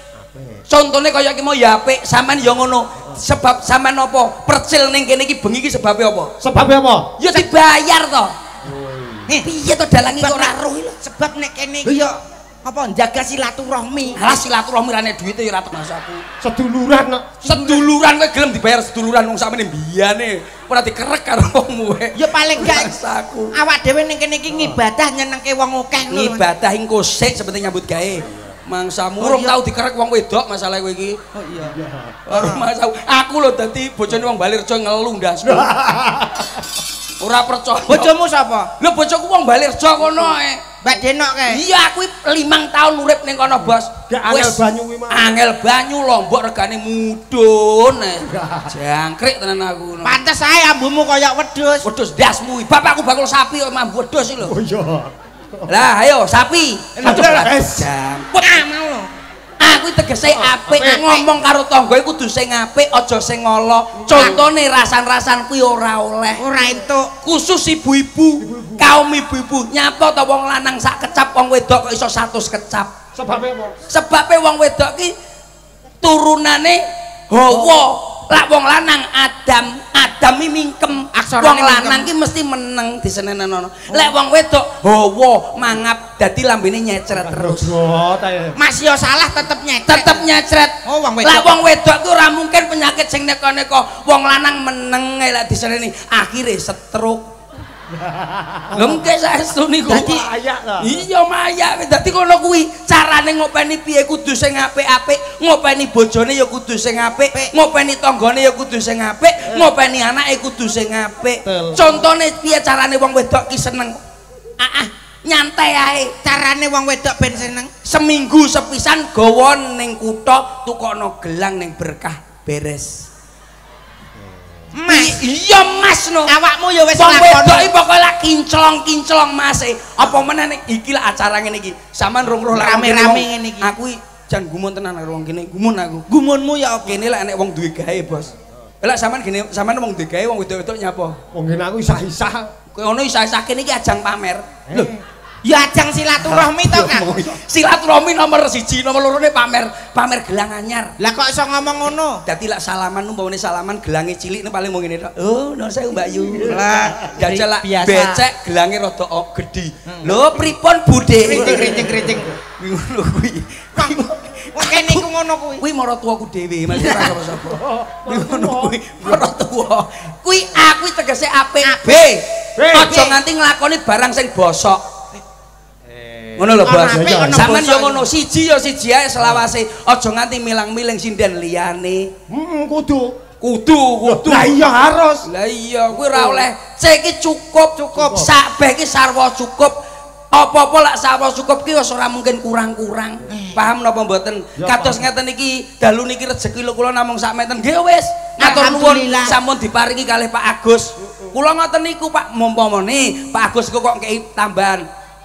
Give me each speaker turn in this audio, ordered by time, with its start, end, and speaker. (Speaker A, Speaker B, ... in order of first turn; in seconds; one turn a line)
Speaker A: 0.2-0.6
Speaker B: 0.7-6.3
Speaker A: 6.4-7.2
Speaker B: 7.2-8.3
Speaker A: 8.6-9.3
Speaker B: 9.4-10.9
Speaker C: 10.1-14.3
Speaker B: 14.1-16.2
Speaker A: 16.4-17.4
Speaker B: 17.4-23.5
Speaker C: 17.5-17.9
Speaker C: 22.1-22.9
Speaker C: 23.6-26.4
Speaker A: 24.5-24.8
Speaker B: 26.1-31.2
Speaker A: 28.3-28.6
Speaker C: 29.2-29.5
Speaker C: 31.3-31.8
Speaker A: 31.7-32.2
Speaker B: 32.3-35.7
Speaker C: 32.3-32.6
Speaker A: 35.4-36.6
Speaker B: 37.2-38.1
Speaker C: 37.9-38.7
Speaker B: 38.8-40.7
Speaker C: 40.8-41.6
Speaker B: 41.5-50.2
Speaker A: 44.1-45.3
Speaker A: 48.3-48.7
Speaker C: 50.0-51.9
Speaker B: 51.8-54.5
Speaker A: 54.4-55.7
Speaker B: 55.7-58.6
Speaker C: 57.0-57.5
Speaker A: 57.0-57.9
Speaker C: 58.4-59.1
Speaker B: 59.6-66.5
Speaker A: 60.2-61.0
Speaker C: 61.0-61.3
Speaker A: 64.0-64.4
Speaker C: 64.1-64.4
Speaker C: 66.4-67.1
Speaker B: 67.2-72.9
Speaker A: 68.4-69.0
Speaker A: 73.1-73.8
Speaker B: 73.9-75.1
Speaker B: 76.0-87.7
Speaker C: 81.1-82.1
Speaker A: 87.1-88.6
Speaker C: 88.5-90.2
Speaker B: 89.8-97.3
Speaker C: 90.8-91.6
Speaker A: 98.0-99.0
Speaker B: 98.7-100.2
Speaker C: 99.9-100.2
Speaker A: 99.9-101.0
Speaker B: 100.8-114.0
Speaker A: 111.4-111.9
Speaker B: 114.6-116.1
Speaker C: 116.2-117.7
Speaker B: 117.8-123.1
Speaker C: 124.7-125.3
Speaker B: 124.9-126.3
Speaker C: 126.2-127.7
Speaker B: 127.0-136.0
Speaker C: 132.5-133.7
Speaker C: 136.1-137.0
Speaker B: 136.8-138.3
Speaker B: 138.8-141.2
Speaker A: 141.3-142.5
Speaker B: 142.7-144.4
Speaker A: 144.7-144.9
Speaker C: 144.7-147.1
Speaker B: 146.2-150.9
Speaker C: 151.0-152.2
Speaker B: 152.2-165.1
Speaker A: 156.3-156.6
Speaker C: 156.5-158.2
Speaker C: 161.2-162.3
Speaker A: 161.5-162.2
Speaker C: 163.8-165.6
Speaker B: 165.6-174.8
Speaker C: 166.7-167.1
Speaker A: 167.4-169.2
Speaker C: 171.6-172.0
Speaker A: 172.6-173.0
Speaker C: 172.8-173.2
Speaker A: 175.9-177.6
Speaker B: 176.4-182.1
Speaker C: 176.6-178.0
Speaker A: 179.2-179.5
Speaker A: 182.3-183.2
Speaker B: 183.4-184.7
Speaker A: 184.0-185.3
Speaker B: 185.2-189.8
Speaker A: 185.9-186.4
Speaker C: 187.8-188.1
Speaker A: 188.0-188.3
Speaker B: 190.3-204.8
Speaker C: 193.3-193.6
Speaker A: 194.6-195.1
Speaker C: 198.4-199.4
Speaker A: 201.0-201.3